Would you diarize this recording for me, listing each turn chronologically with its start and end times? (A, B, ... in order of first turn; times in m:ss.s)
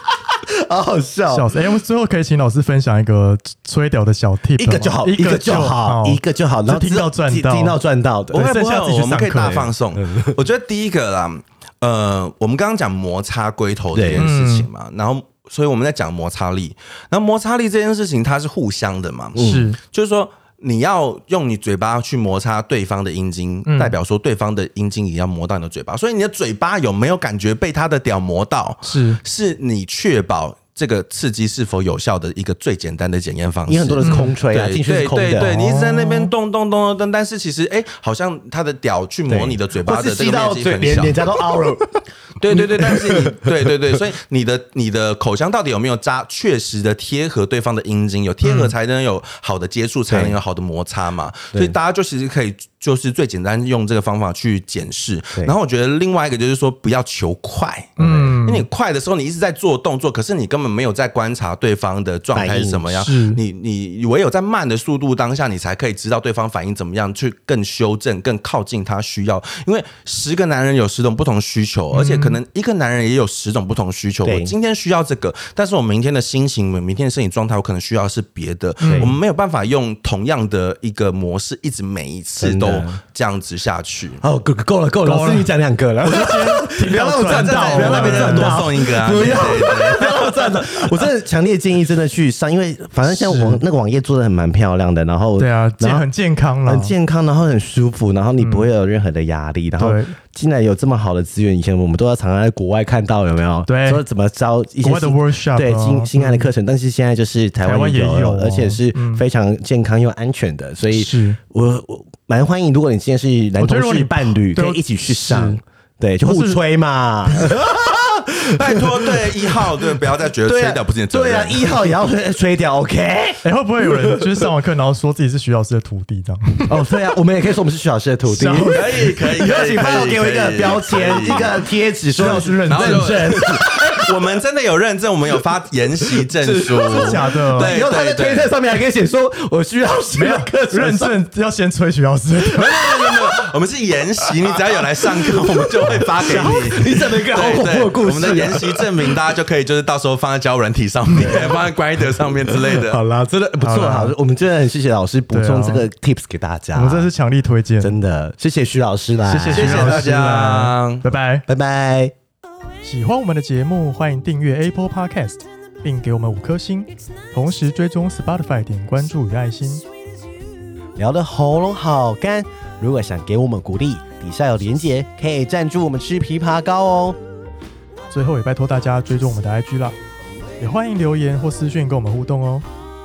0:00.5-0:01.5 A
0:01.3-0:07.8 B
0:04.6-0:08.4 A
0:08.3-0:09.7 B
0:08.3-0:41.2 C
0:10.0-0:10.4 A
0:13.9-0:14.3 A
0:14.1-0:14.7 B
0:19.4-0:19.7 A
0:19.4-0:19.8 B
0:23.6-0:23.9 B
0:28.8-0:29.2 B
0:33.7-0:35.5 A
0:34.0-0:34.4 B
0:35.4-0:36.3 B
0:39.3-0:43.7 A
0:42.4-1:24.2 C
0:48.4-0:48.7 B
0:50.1-0:50.4 A
0:58.0-0:58.6 B
0:58.0-0:58.4 A
1:02.3-1:02.9 A
1:02.9-1:03.4 B
1:11.9-1:12.4 B
1:14.2-1:14.5 A
1:18.8-1:19.2 B
1:18.8-1:19.2 A
1:22.4-1:23.0 A
1:24.2-1:36.1 A
1:25.0-1:28.7 B
1:27.2-1:30.9 C
1:33.1-1:33.6 B
1:35.4-1:36.9 B
1:36.6-2:04.5 A
1:38.4-1:38.7 B
1:39.8-1:40.2 B
1:43.7-1:44.0 B
1:44.8-1:46.5 B
1:47.6-1:49.2 B
1:50.9-1:51.4 B
1:53.6-1:55.6 B
1:56.2-1:56.6 B
1:58.6-2:01.8 C
2:03.4-2:06.8 B
2:06.7-2:14.1 A
2:08.3-2:09.0 B
2:08.7-2:11.6 C
2:12.1-2:13.3 B
2:12.6-2:18.5 C
2:16.1-2:21.2 A
2:16.8-2:17.8 B
2:20.1-2:22.8 B
2:22.5-2:33.0 C
2:22.8-2:23.5 A
2:24.4-2:29.1 A
2:26.2-2:26.7 B
2:31.1-2:37.1 A
2:33.6-2:34.1 B
2:35.3-2:35.8 B
2:36.7-2:37.9 B
2:37.8-2:40.1 A
2:39.3-2:41.4 B
2:39.5-2:41.0 C
2:41.5-2:42.1 A
2:42.8-2:49.8 B
2:51.0-2:57.2 A
2:58.1-3:00.0 B
3:00.6-3:02.6 B